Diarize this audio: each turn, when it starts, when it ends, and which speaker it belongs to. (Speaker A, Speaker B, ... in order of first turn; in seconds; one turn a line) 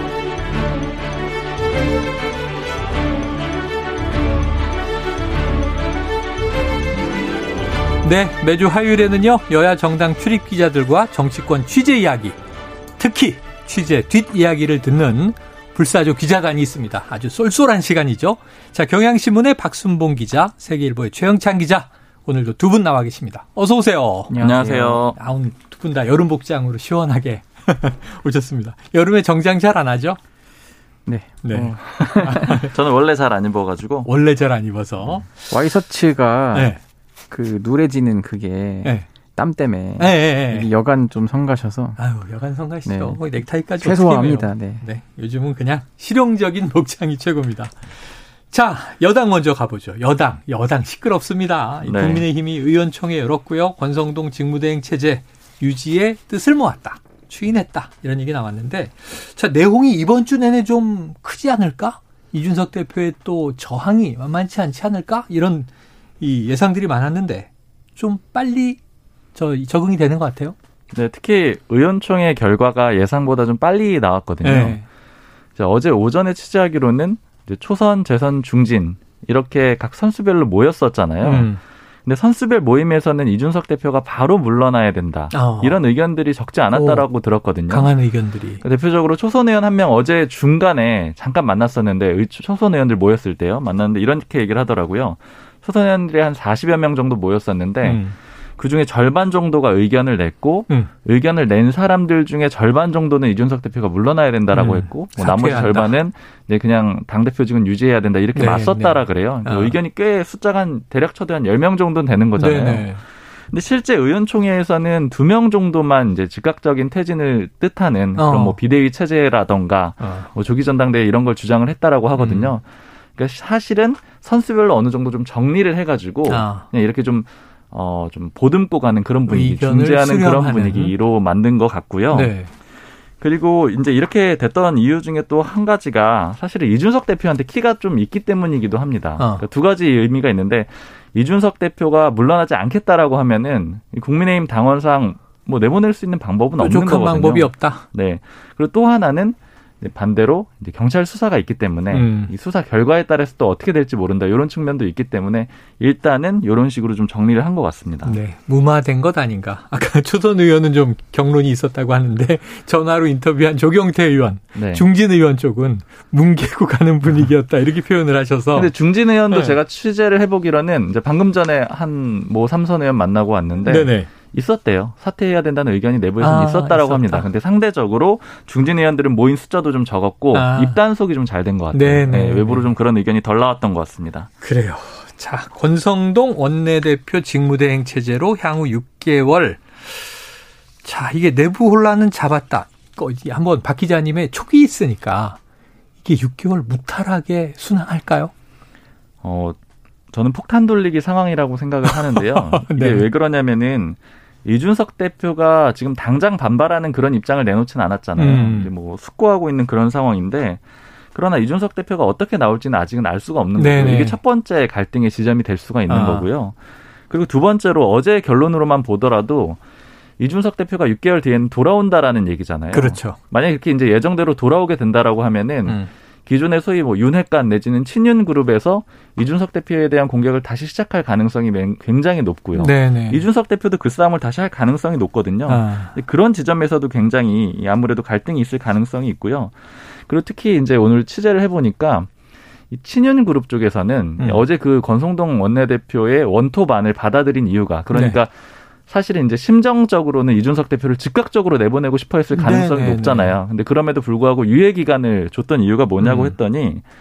Speaker A: 8.0-12.4
Speaker A: 13.0-24.4
Speaker B: 24.3-25.0
Speaker C: 24.4-25.2
Speaker A: 25.1-30.2
Speaker B: 31.1-32.6
Speaker A: 31.4-32.7
Speaker C: 32.0-34.1
Speaker A: 34.0-35.3
Speaker B: 35.5-36.7
Speaker A: 36.5-36.8
Speaker B: 37.3-42.0
Speaker A: 40.0-40.7
Speaker A: 42.0-47.9
Speaker B: 42.9-43.2
Speaker B: 43.8-44.8
Speaker A: 48.5-68.8
Speaker C: 51.8-52.3
Speaker A: 69.3-70.6
Speaker C: 70.9-74.8
Speaker A: 74.4-74.8
Speaker C: 75.6-81.5
Speaker A: 81.2-81.6
Speaker C: 82.1-87.9
Speaker A: 85.3-85.8
Speaker A: 86.7-87.0
Speaker A: 87.7-88.6
Speaker C: 88.6-98.0
Speaker A: 97.8-98.2
Speaker C: 98.6-113.0
Speaker A: 104.5-106.0
Speaker A: 108.3-109.8
Speaker A: 112.4-113.0
Speaker C: 113.5-122.7
Speaker A: 118.2-118.6
Speaker A: 120.0-120.3
Speaker A: 122.2-122.5
Speaker C: 123.2-132.3
Speaker A: 126.3-126.7
Speaker A: 129.3-130.9
Speaker A: 132.1-132.5
Speaker C: 133.2-158.2
Speaker A: 139.2-139.4
Speaker A: 146.6-147.8
Speaker A: 151.9-152.3
Speaker A: 158.0-168.7
Speaker C: 164.6-164.9
Speaker C: 168.5-184.3
Speaker A: 169.3-169.6
Speaker A: 173.7-174.1
Speaker A: 176.2-177.3
Speaker A: 180.3-180.8
Speaker A: 181.7-182.7
Speaker A: 184.4-190.2
Speaker A: 190.8-195.4
Speaker A: 196.0-198.3
Speaker C: 199.2-199.6
Speaker C: 200.1-210.6
Speaker A: 201.8-203.1
Speaker A: 208.2-208.7
Speaker C: 211.1-216.6
Speaker A: 213.6-214.2
Speaker A: 215.9-216.3
Speaker C: 217.1-219.6
Speaker C: 220.2-242.1
Speaker A: 222.7-223.2
Speaker A: 232.6-233.2
Speaker A: 235.5-235.9
Speaker C: 242.7-248.3
Speaker A: 247.9-248.2
Speaker C: 248.9-256.8
Speaker A: 252.3-253.4
Speaker A: 256.0-256.4